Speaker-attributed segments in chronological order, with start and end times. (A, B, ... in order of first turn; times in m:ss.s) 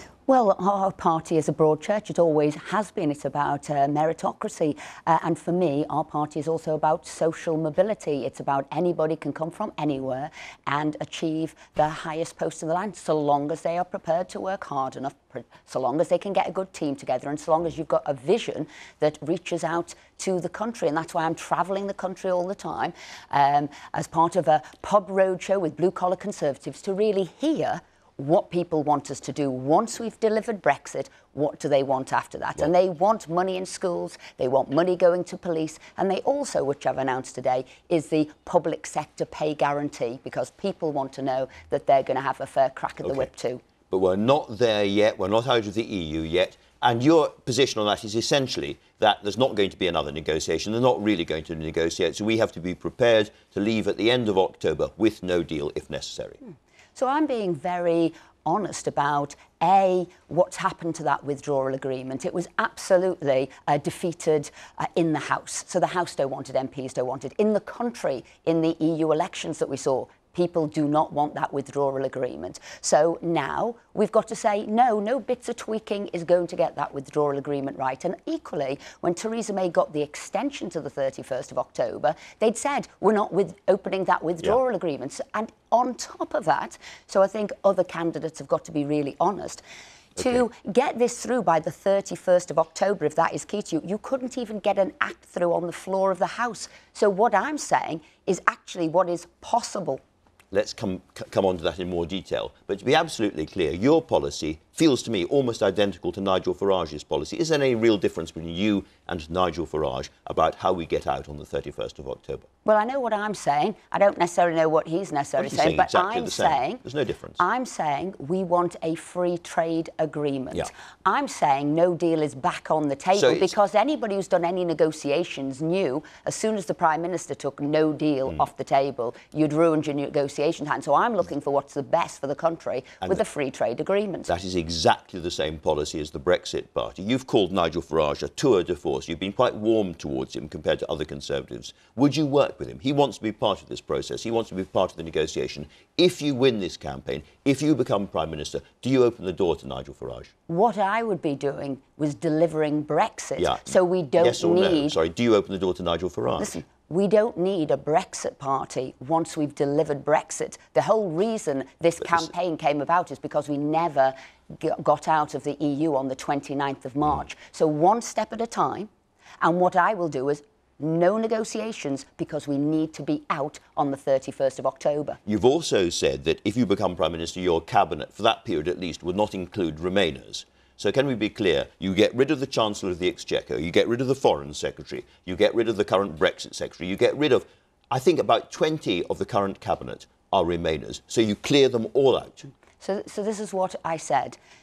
0:00.3-0:43.6 A
0:43.0-0:43.3 B
0:43.9-0:56.4 B
0:56.4-1:29.6 A
1:30.2-1:40.0 A
1:40.5-1:52.5 B
1:52.6-1:56.8 A
1:55.4-1:57.4 B
1:57.4-2:14.3 A
2:03.1-2:03.5 B
2:14.3-2:30.3 B
2:30.5-2:35.0 A
2:33.4-2:36.6 B
2:36.4-2:48.9 A
2:42.0-2:42.3 B
2:49.4-2:55.2 A
2:55.2-3:12.5 B
3:12.8-3:14.4 A